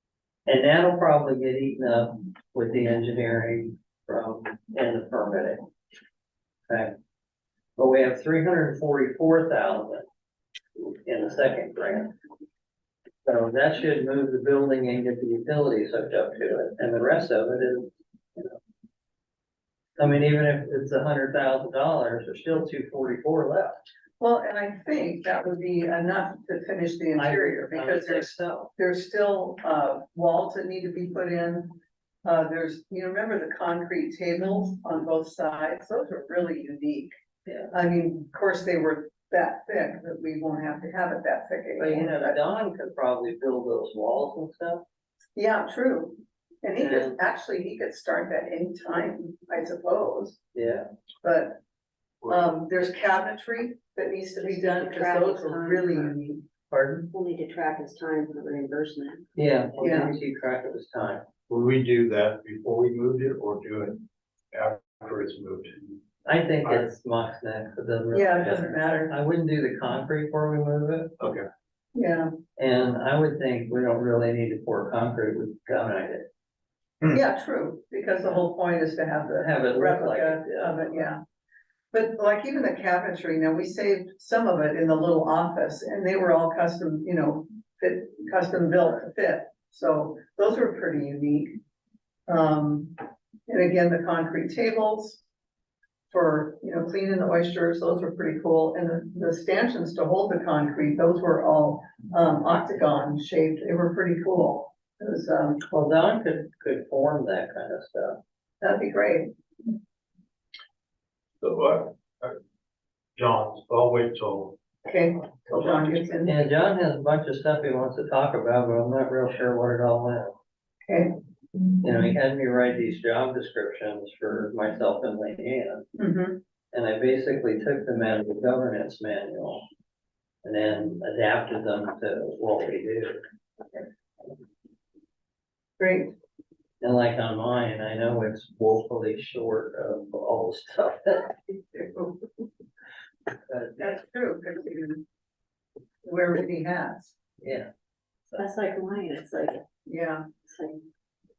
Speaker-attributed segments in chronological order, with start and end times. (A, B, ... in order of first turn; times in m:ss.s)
0:00.4-0:05.6 A
0:06.7-0:06.9 A
0:07.8-0:10.0 A
0:10.8-0:12.1 A
0:13.2-0:18.6 A
0:20.0-0:23.8 A
0:24.2-0:37.1 B
0:27.2-0:28.7 A
0:37.7-0:42.4 B
0:41.8-0:44.8 A
0:45.4-0:50.4 B
0:46.8-0:47.2 A
0:50.5-0:50.8 A
0:51.2-0:51.6 B
0:52.3-0:56.4 B
0:54.4-0:56.1 C
0:56.7-0:57.1 A
0:57.1-0:59.2 C
0:59.4-1:01.2 A
0:59.8-1:00.1 B
1:01.5-1:06.0 D
1:06.2-1:11.1 A
1:06.6-1:06.9 D
1:08.1-1:09.2 B
1:11.2-1:11.5 D
1:11.9-1:12.3 B
1:12.6-1:16.3 A
1:17.1-1:21.2 B
1:19.4-1:21.1 A
1:21.9-1:31.6 B
1:32.3-1:33.0 B
1:33.5-1:35.2 B
1:36.1-1:45.6 B
1:45.7-1:48.2 A
1:48.6-1:49.3 B
1:51.4-1:52.4 D
1:53.2-1:54.6 D
1:54.8-1:56.4 B
1:55.5-1:56.1 D
1:56.2-2:00.3 A
2:00.9-2:01.1 B
2:01.8-2:05.8 A
2:06.0-2:06.4 B
2:06.7-2:09.6 A
2:10.4-2:13.2 A
2:15.8-2:16.1 B
2:16.8-2:21.5 A
2:23.5-2:24.0 A
2:23.8-2:25.0 B
2:26.0-2:27.1 B
2:27.4-2:27.7 A
2:28.3-2:29.6 C
2:29.9-2:30.3 B
2:30.4-2:30.8 C